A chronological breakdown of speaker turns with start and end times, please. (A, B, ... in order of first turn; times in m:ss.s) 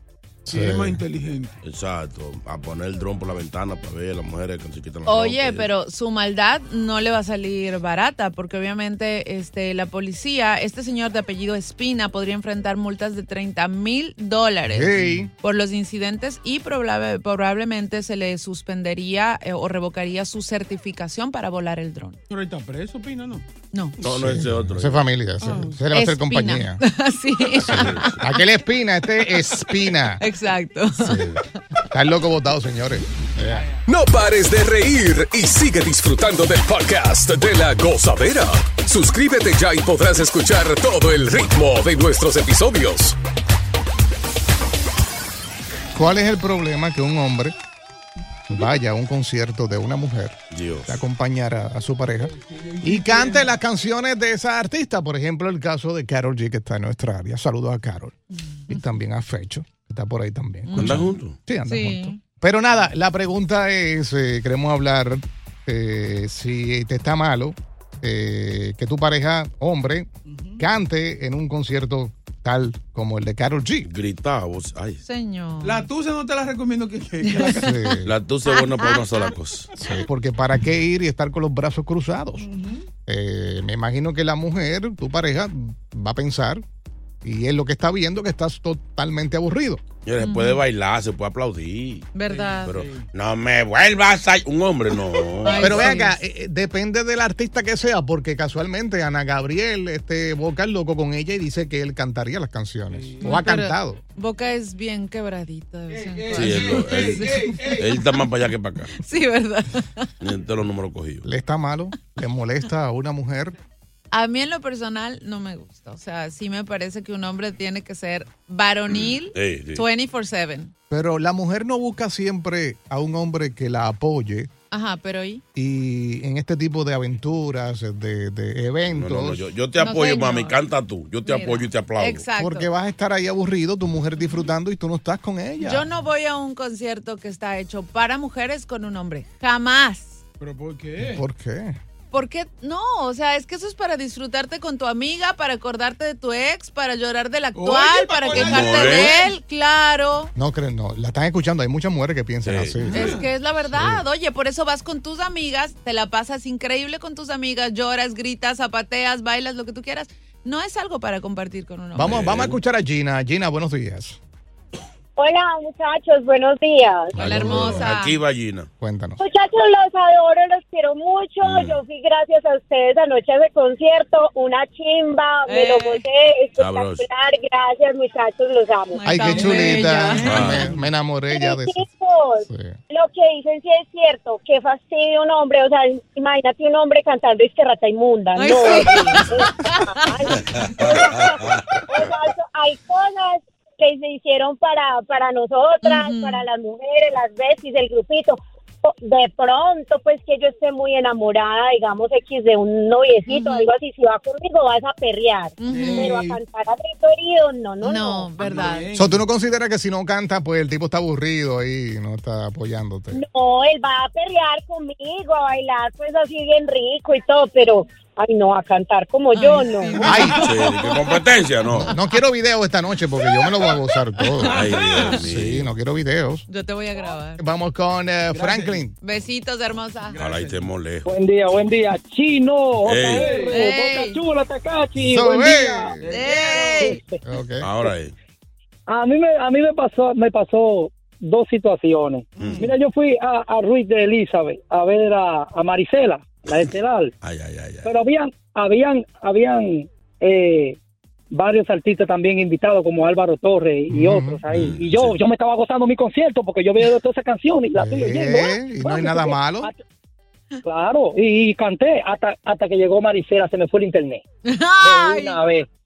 0:00.5-0:01.0 A
0:00.5-0:01.6 B
0:01.6-0:05.7 C
0:05.1-0:22.2 D
0:14.7-0:15.3 A
0:22.3-0:23.4 B
0:24.0-0:25.1 C
0:24.0-0:26.8 A
0:25.4-0:25.8 B
0:25.9-0:28.4 D
0:27.6-0:30.2 A
0:27.7-0:28.2 C
0:30.2-0:31.6 D
0:31.0-0:33.7 A
0:33.3-0:33.8 B
0:33.9-0:43.2 E
0:46.0-0:47.5 A
0:48.5-0:58.2 A
0:50.5-0:51.0 C
0:52.3-0:53.6 B
0:58.7-1:10.1 A
1:00.7-1:01.1 D
1:00.8-1:01.4 C
1:01.7-1:02.2 D
1:10.3-1:10.6 B
1:10.6-1:13.9 A
1:13.8-1:15.0 C
1:15.1-1:15.9 D
1:15.6-1:17.9 B
1:17.2-1:17.5 D
1:17.6-1:18.1 A
1:18.0-1:19.7 C
1:18.5-1:19.2 D
1:19.8-1:22.5 A
1:22.4-1:22.9 B
1:23.1-1:26.6 A
1:27.2-1:29.8 A
1:30.0-1:32.1 C
1:30.2-1:30.6 D
1:32.2-1:32.7 D
1:32.3-1:33.1 B
1:32.6-1:35.9 C
1:35.1-1:35.7 B
1:35.4-1:36.2 D
1:35.6-1:44.0 A
1:42.9-1:43.4 B
1:43.2-1:47.6 D
1:45.9-1:48.1 B
1:46.3-1:49.0 C
1:49.0-1:50.1 D
1:50.2-1:51.2 C
1:51.2-1:53.6 A
1:54.1-2:00.7 D
1:59.0-1:59.8 C
2:00.9-2:04.5 A
2:04.7-2:05.4 D
2:05.6-2:09.5 A
2:08.9-2:12.2 C
2:09.8-2:10.6 D
2:11.3-2:12.7 D
2:12.4-2:15.8 A
2:15.6-2:20.2 D
2:20.4-2:21.2 B
2:21.0-2:21.8 A
2:22.1-2:30.3 D
2:27.6-2:29.3 B
2:28.3-2:29.2 C
2:30.4-2:34.0 A
2:32.4-2:32.8 C
2:32.8-2:33.3 B
2:32.9-2:42.2 D
2:42.0-2:44.2 A
2:42.0-2:42.6 C
2:45.2-2:47.5 F
2:47.2-2:48.7 C
2:47.2-2:48.2 D
2:47.2-2:47.9 A
2:48.8-2:49.2 A
2:49.2-2:59.5 F
2:51.4-2:51.8 C
2:55.5-2:56.0 D
2:56.6-2:57.1 C
2:58.9-3:00.6 D
2:59.0-3:01.9 A
2:59.2-3:00.8 B
3:00.2-3:00.7 C
3:01.3-3:28.4 F
3:02.4-3:02.8 A
3:08.4-3:10.0 D
3:10.6-3:11.6 C
3:15.8-3:16.4 D
3:23.3-3:23.7 D
3:25.6-3:26.2 D
3:25.6-3:26.4 B
3:27.8-3:28.9 D
3:28.4-3:29.2 B
3:28.9-3:33.2 A
3:33.1-3:40.0 F
3:39.3-3:41.0 D
3:40.0-3:40.4 B
3:40.0-3:40.5 A
3:40.3-3:42.0 C
3:41.8-3:46.4 A
3:44.4-3:45.7 C
3:46.5-3:47.4 D
3:47.4-3:48.9 A
3:48.3-3:48.8 B
3:49.0-3:50.2 D
3:50.1-3:50.7 B
3:50.2-3:51.7 C
3:51.0-3:56.0 G
3:52.8-3:53.4 C
3:53.1-3:53.6 B
3:53.5-3:54.2 D
3:55.0-3:56.0 A
3:56.0-3:56.9 B
3:56.1-3:57.0 D
3:56.8-3:57.2 G
3:57.2-3:57.7 A
3:57.6-3:58.1 C
3:58.9-4:07.1 G
4:02.4-4:02.7 B
4:02.4-4:02.7 C
4:06.5-4:07.9 C
4:07.8-4:10.8 G
4:11.3-4:19.8 G
4:13.9-4:14.4 A
4:14.5-4:15.2 C
4:17.8-4:19.7 A
4:20.6-4:24.2 G
4:24.5-4:25.4 D
4:24.8-4:25.7 G